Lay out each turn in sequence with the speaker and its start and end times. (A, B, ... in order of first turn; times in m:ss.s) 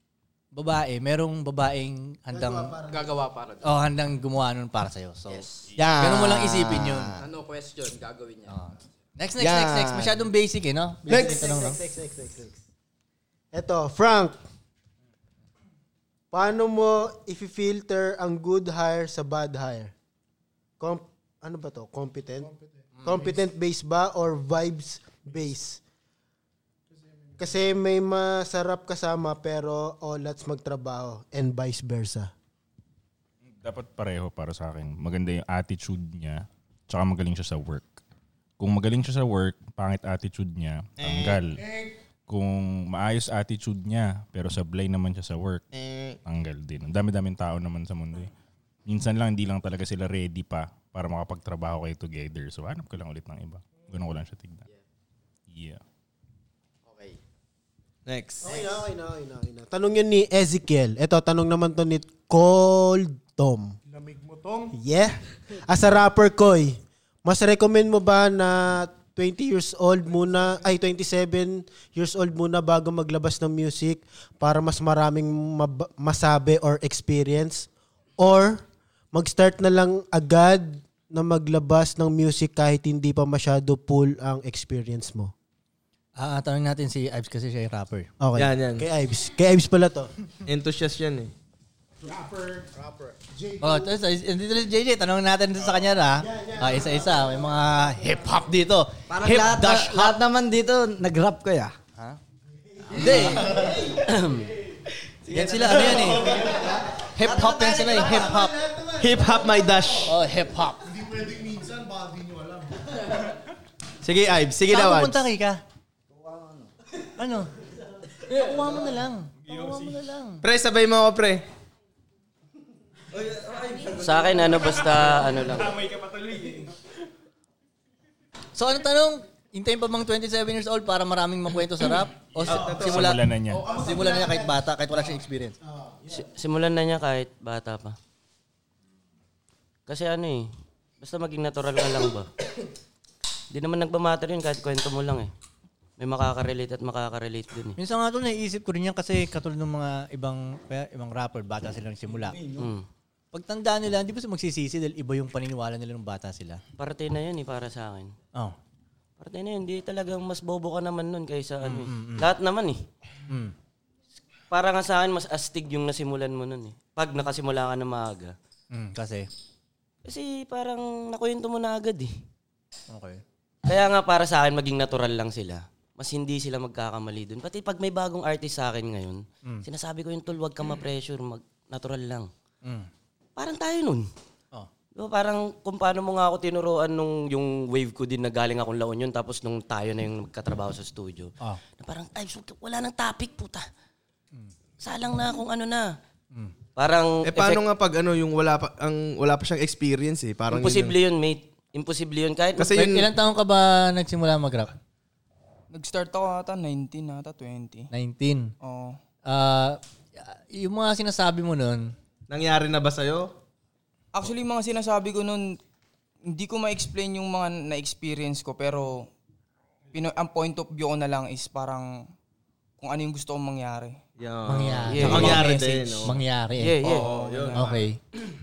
0:00.5-0:02.8 A
0:02.3-0:03.1 B
0:02.9-0:03.6 C
0:03.6-0:05.5 A
0:05.3-0:05.7 C
0:05.8-0:07.2 D
0:06.0-0:07.1 A
0:07.2-0:08.5 C
0:08.5-0:11.8 A
0:09.4-0:10.2 D
0:11.1-0:11.5 D
0:11.1-0:12.6 B
0:13.5-0:14.4 B
0:16.3-0:19.9 B
0:20.8-0:25.8 B
0:27.4-0:32.3 B
0:33.5-0:38.0 E
0:38.6-0:41.6 E
0:41.0-0:41.4 D
0:41.6-0:41.9 F
0:42.3-0:45.7 E
0:45.7-0:46.2 D
0:46.2-0:48.3 E
0:48.9-0:54.6 E
0:55.5-0:55.8 E
0:58.1-0:58.6 D
0:58.4-1:03.8 B
1:03.9-1:04.7 F
1:04.7-1:25.3 B
1:26.2-1:28.1 A
1:28.2-1:30.1 B
1:28.4-1:28.9 D
1:30.5-1:31.3 D
1:32.0-1:32.8 F
1:32.8-1:33.1 C
1:33.3-1:33.9 F
1:33.6-1:40.2 A
1:36.2-1:37.3 B
1:39.1-1:41.7 G
1:42.9-1:43.7 A
1:44.0-1:44.5 H
1:45.3-1:46.8 D
1:45.3-1:46.5 A
1:46.3-1:48.0 G
1:47.1-1:48.6 A
1:47.9-1:48.2 D
1:48.9-1:50.2 D
1:50.0-1:50.8 A
1:50.8-1:52.8 F
1:54.0-1:55.2 D
1:54.7-1:55.6 A
1:57.2-1:57.5 A
1:58.3-2:00.4 A
1:59.5-2:00.0 E
2:00.4-2:01.4 D
2:03.7-2:04.0 C
2:03.9-2:05.8 H
2:05.5-2:06.7 E
2:08.6-2:15.6 A
2:12.4-2:13.7 E
2:12.5-2:13.2 D
2:13.7-2:14.2 C
2:16.1-2:18.0 H
2:19.9-2:20.5 H
2:21.0-2:22.3 H
2:23.5-2:25.3 H
2:26.0-2:27.8 H
2:27.8-2:32.4 A
2:32.6-2:32.8 H
2:33.3-2:36.6 A
2:36.8-2:38.1 H
2:39.2-2:42.8 H
2:41.6-2:42.3 A
2:43.3-2:43.5 A
2:44.5-2:48.4 H
2:48.7-2:49.3 A
2:50.0-2:52.2 H
2:52.9-2:53.2 A
2:53.6-3:02.3 H
3:02.6-3:02.9 A
3:03.4-3:04.1 H
3:05.0-3:13.7 H
3:14.8-3:16.0 H
3:16.8-3:17.6 H
3:17.2-3:21.0 D
3:20.5-3:22.8 H
3:22.6-3:23.1 D
3:22.7-3:24.8 A
3:25.7-3:27.9 I
3:27.9-3:28.5 A
3:28.6-3:29.0 I
3:29.3-3:31.9 A
3:32.3-3:33.3 D
3:34.1-3:35.6 I
3:36.3-3:39.1 I
3:39.9-3:42.0 I
3:42.8-3:44.0 I
3:44.2-3:46.2 D
3:44.5-3:45.5 A
3:44.9-3:45.4 H
3:45.2-3:46.1 I
3:46.0-3:46.8 A
3:46.6-3:47.1 H
3:46.8-3:47.8 D
3:47.0-3:47.6 I
3:47.5-3:48.0 A